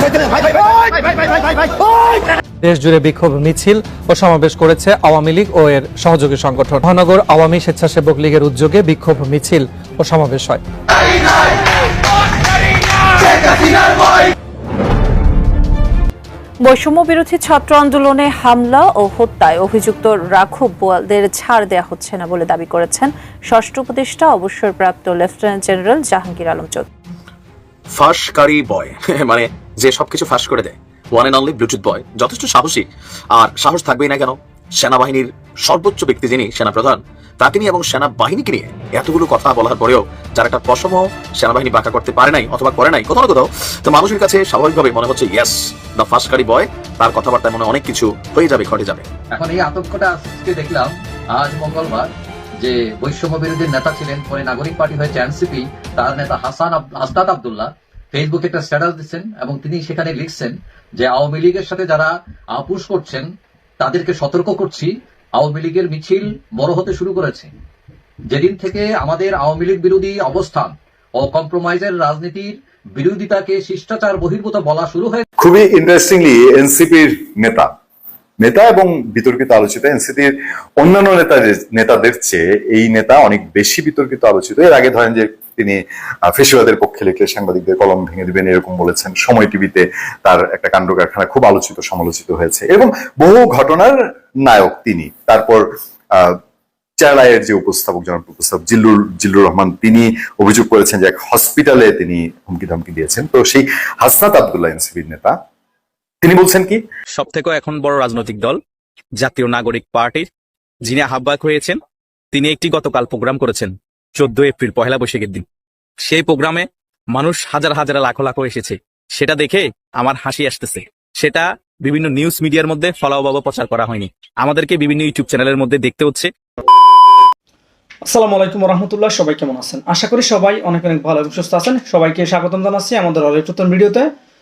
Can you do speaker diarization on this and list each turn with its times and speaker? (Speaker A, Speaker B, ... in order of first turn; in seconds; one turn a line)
Speaker A: 2.6-10.6
Speaker A: 13.3-13.9
Speaker B: 16.6-26.9
Speaker C: 28.0-49.1
Speaker D: 49.3-63.3
Speaker D: 63.8-67.5
Speaker D: 68.3-75.2
Speaker E: 75.4-77.7
Speaker E: 78.4-96.4
Speaker E: 97.0-105.4
Speaker E: 106.2-106.8
Speaker F: 107.2-108.6
Speaker F: 109.2-110.3
Speaker F: 110.9-111.8
Speaker F: 112.3-115.4
Speaker F: 116.0-126.3
Speaker G: 128.1-134.1